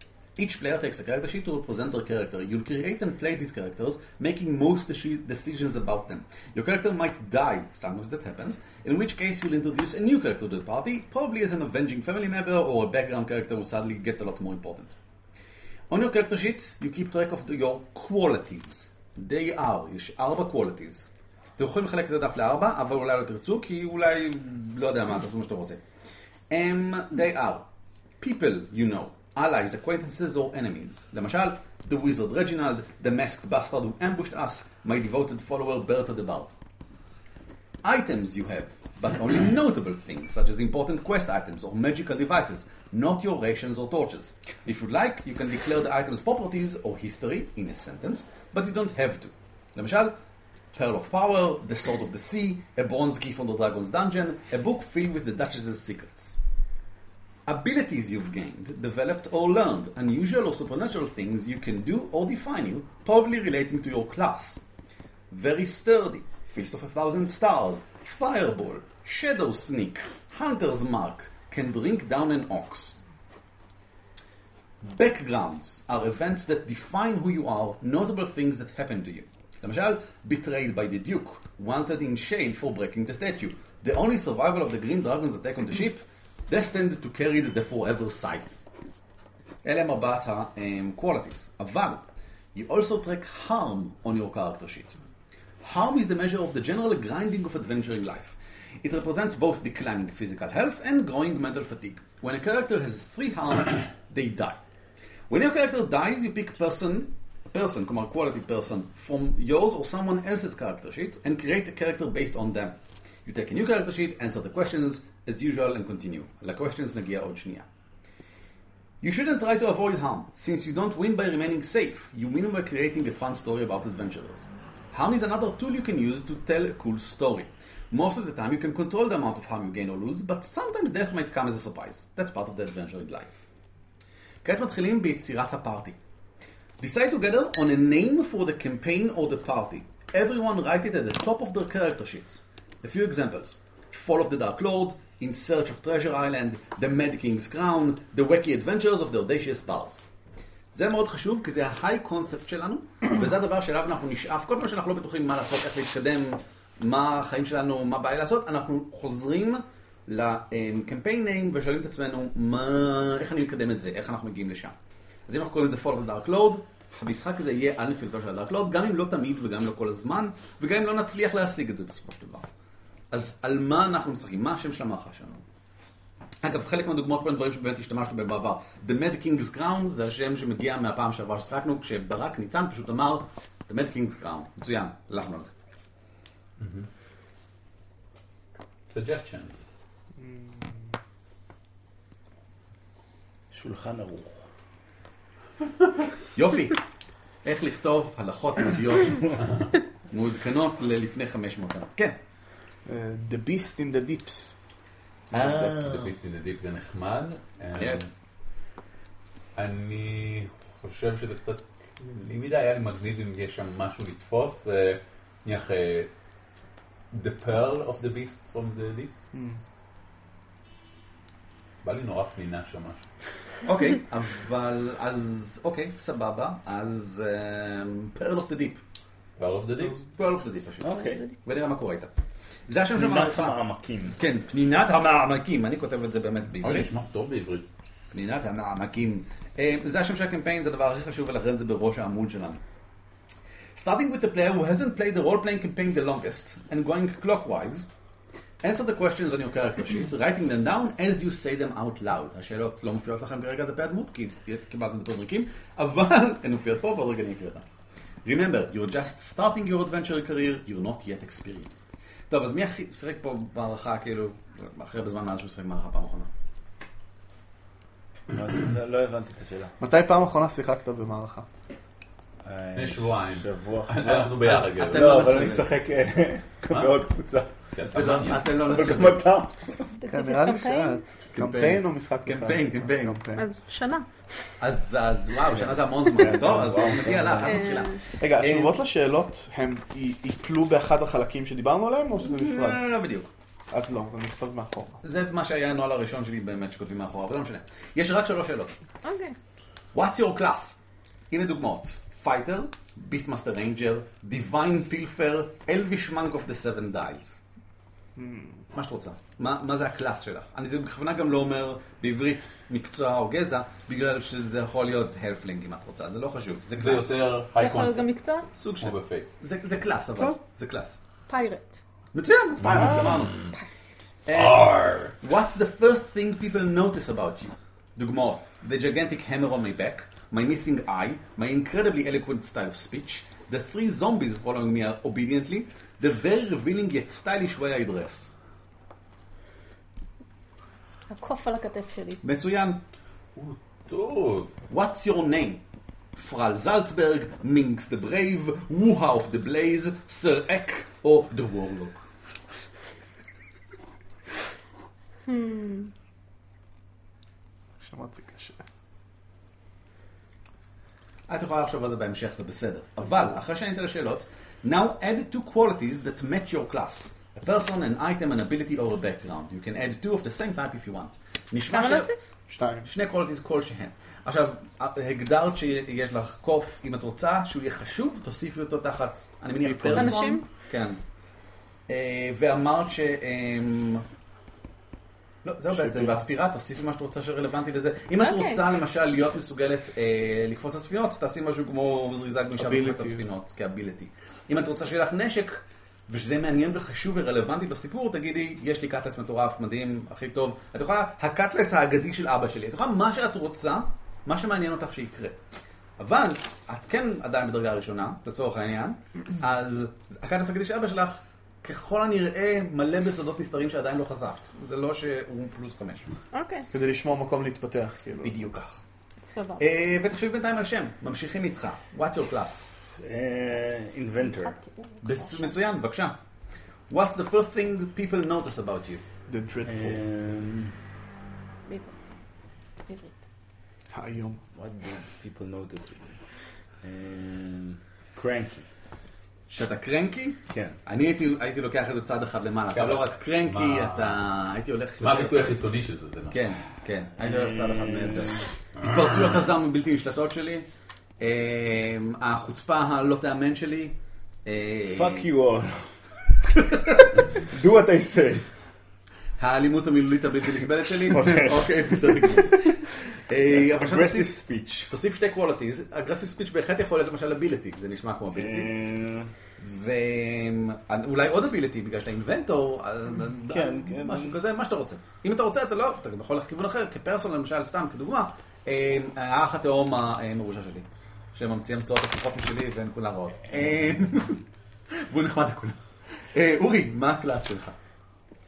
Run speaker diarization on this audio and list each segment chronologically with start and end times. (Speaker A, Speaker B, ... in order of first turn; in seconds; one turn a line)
Speaker A: 0.4-15.0
Speaker A: 15.9-25.8
Speaker A: 26.5-27.6
Speaker A: 28.2-36.5
Speaker A: 37.8-50.1
Speaker A: 50.7-56.4
Speaker A: 57.5-64.6
Speaker A: 65.3-73.0
Speaker A: 74.8-88.5
Speaker A: 89.6-95.0
Speaker A: 95.6-104.6
Speaker A: 105.3-117.7
Speaker A: 119.0-133.4
Speaker A: 134.4-136.0
Speaker A: 136.8-150.0
Speaker A: 150.7-164.7
Speaker A: 165.3-172.5
Speaker A: 173.1-175.4
Speaker A: 176.4-185.5
Speaker B: 186.6-186.9
Speaker B: 188.9-189.6
Speaker C: 190.2-190.9
Speaker D: 193.5-194.4
Speaker A: 196.3-196.8
Speaker A: 197.4-199.4
Speaker A: 200.1-202.2
Speaker C: 202.9-204.5
Speaker A: 205.3-206.1
Speaker B: 205.3-208.1
Speaker A: 207.8-208.0
Speaker B: 209.6-216.1
Speaker B: 217.1-219.1
Speaker C: 219.3-219.6
Speaker B: 221.8-223.0
Speaker A: 223.6-228.8
Speaker B: 229.4-230.0
Speaker A: 229.8-232.1
Speaker D: 230.8-231.2
Speaker A: 232.7-233.6
Speaker D: 232.9-234.2
Speaker A: 234.2-236.9
Speaker B: 236.6-237.7
Speaker A: 238.1-242.6
Speaker A: 243.8-247.9
Speaker A: 248.6-257.6
Speaker A: 258.2-266.3
Speaker D: 268.3-269.7
Speaker C: 269.8-271.5
Speaker D: 272.4-277.5
Speaker B: 272.7-275.6
Speaker A: 274.4-275.7
Speaker B: 276.7-277.0
Speaker B: 277.7-278.5
Speaker A: 277.8-279.3
Speaker D: 278.6-279.9
Speaker E: 279.9-281.0
Speaker C: 280.1-283.4
Speaker A: 281.3-283.2
Speaker E: 283.4-284.1
Speaker A: 284.6-288.8
Speaker D: 285.5-287.6
Speaker E: 287.4-288.0
Speaker C: 288.1-292.8
Speaker A: 292.2-293.3
Speaker C: 293.7-295.0
Speaker A: 295.0-298.8
Speaker E: 299.0-299.4
Speaker A: 299.9-300.8
Speaker A: 301.3-307.4
Speaker C: 308.1-308.6
Speaker A: 308.7-317.2
Speaker B: 316.8-318.1
Speaker E: 317.6-318.5
Speaker A: 318.6-321.0
Speaker B: 318.8-319.3
Speaker E: 321.3-321.8
Speaker A: 322.1-323.4
Speaker B: 322.6-323.5
Speaker E: 322.8-323.6
Speaker A: 324.3-338.3
Speaker B: 324.3-325.1
Speaker E: 341.1-342.2
Speaker A: 342.2-342.8
Speaker B: 343.4-344.5
Speaker A: 344.7-345.6
Speaker A: 346.1-352.0
Speaker E: 355.3-355.9
Speaker C: 357.8-358.6
Speaker A: 361.3-372.1
Speaker E: 371.7-372.2
Speaker C: 372.5-372.9
Speaker A: 372.9-381.0
Speaker C: 379.6-380.2
Speaker E: 379.9-380.4
Speaker A: 381.9-384.1
Speaker A: 385.4-405.4
Speaker C: 385.7-386.2
Speaker E: 388.2-388.6
Speaker C: 392.6-393.3
Speaker A: 406.0-416.1
Speaker E: 416.3-416.7
Speaker C: 416.7-418.4
Speaker A: 418.2-418.8
Speaker E: 419.3-419.6
Speaker A: 419.6-422.6
Speaker D: 423.0-424.6
Speaker E: 424.2-425.6
Speaker A: 425.0-426.1
Speaker A: 426.9-429.0
Speaker C: 429.3-430.0
Speaker D: 429.6-430.7
Speaker E: 431.7-431.9
Speaker E: 432.9-433.1
Speaker C: 433.9-434.4
Speaker D: 434.5-436.2
Speaker D: 436.8-438.6
Speaker A: 439.5-445.6
Speaker D: 440.5-440.8
Speaker B: 442.7-444.2
Speaker B: 445.0-446.5
Speaker A: 446.3-450.7
Speaker D: 447.2-448.5
Speaker A: 451.2-455.3
Speaker D: 454.9-455.9
Speaker A: 456.6-457.1
Speaker D: 457.4-458.4
Speaker A: 459.4-468.7
Speaker D: 461.1-462.4
Speaker D: 463.5-464.9
Speaker D: 468.4-469.3
Speaker A: 469.6-484.4
Speaker D: 473.5-474.4
Speaker A: 484.9-485.8
Speaker A: 486.3-487.8